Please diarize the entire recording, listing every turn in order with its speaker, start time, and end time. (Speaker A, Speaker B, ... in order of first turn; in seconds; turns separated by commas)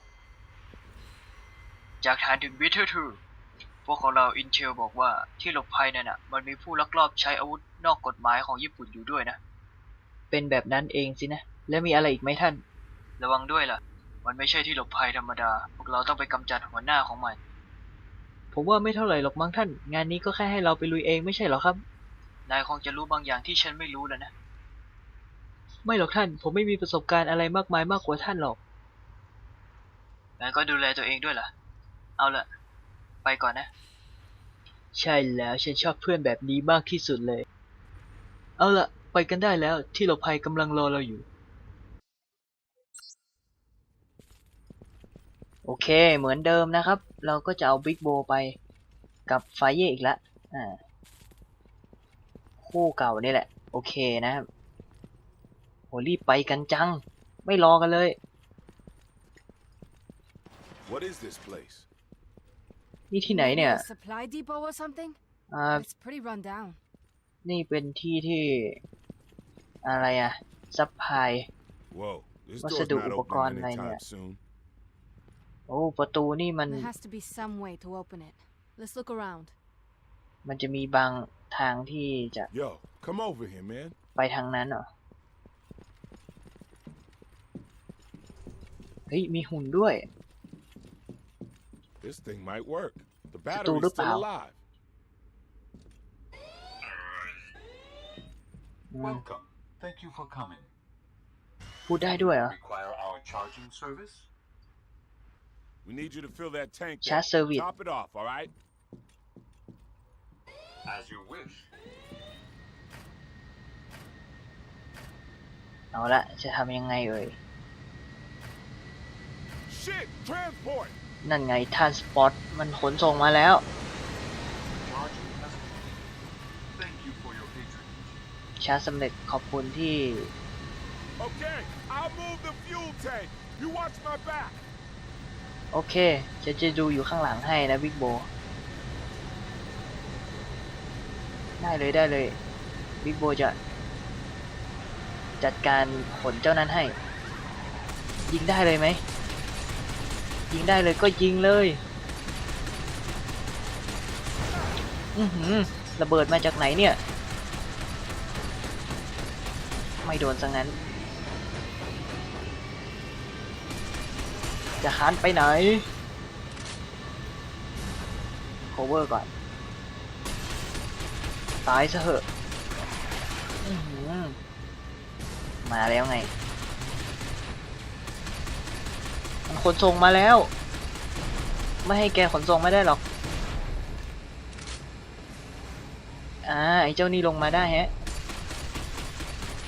Speaker A: 2.0-3.2, Speaker A: 3.9-9.4, Speaker A: 10.3-12.6, Speaker A: 13.2-17.4, Speaker A: 18.5-21.8, Speaker A: 22.5-24.3, Speaker A: 25.9-28.6, Speaker A: 30.4-31.5, Speaker A: 32.2-32.5, Speaker A: 33.2-33.7, Speaker A: 35.0-37.5, Speaker A: 38.6-41.2, Speaker A: 45.6-48.5, Speaker A: 49.3-50.8, Speaker A: 52.6-54.5, Speaker A: 55.9-58.1, Speaker B: 60.9-61.9, Speaker A: 63.1-63.8, Speaker C: 63.3-65.2, Speaker A: 65.5-65.8, Speaker C: 65.7-66.8, Speaker A: 67.4-68.8, Speaker A: 69.8-71.5, Speaker B: 71.9-74.4, Speaker A: 72.6-74.0, Speaker A: 75.7-76.9, Speaker C: 76.7-79.5, Speaker A: 80.4-82.5, Speaker B: 82.5-84.0, Speaker A: 84.2-84.8, Speaker A: 89.1-90.0, Speaker B: 92.0-94.6, Speaker A: 93.5-94.2, Speaker D: 96.8-97.5, Speaker A: 98.9-99.2, Speaker D: 99.0-100.7, Speaker A: 101.9-102.5, Speaker D: 102.2-104.3, Speaker B: 105.8-108.5, Speaker A: 107.0-107.7, Speaker D: 110.8-111.7, Speaker A: 115.9-117.4, Speaker B: 119.7-120.9, Speaker A: 121.2-123.6, Speaker D: 124.8-126.0, Speaker D: 126.8-128.2, Speaker A: 128.6-130.3, Speaker B: 131.2-134.6, Speaker A: 135.7-138.3, Speaker A: 141.6-142.4, Speaker A: 143.0-143.6, Speaker A: 145.4-146.9, Speaker A: 148.3-149.0, Speaker A: 150.5-151.8, Speaker A: 155.2-157.0, Speaker A: 160.0-160.7, Speaker A: 164.8-165.8, Speaker A: 168.7-169.3, Speaker A: 171.7-172.2, Speaker A: 173.6-174.4, Speaker A: 175.6-176.3, Speaker A: 179.5-180.5, Speaker A: 181.8-183.0, Speaker A: 186.4-187.9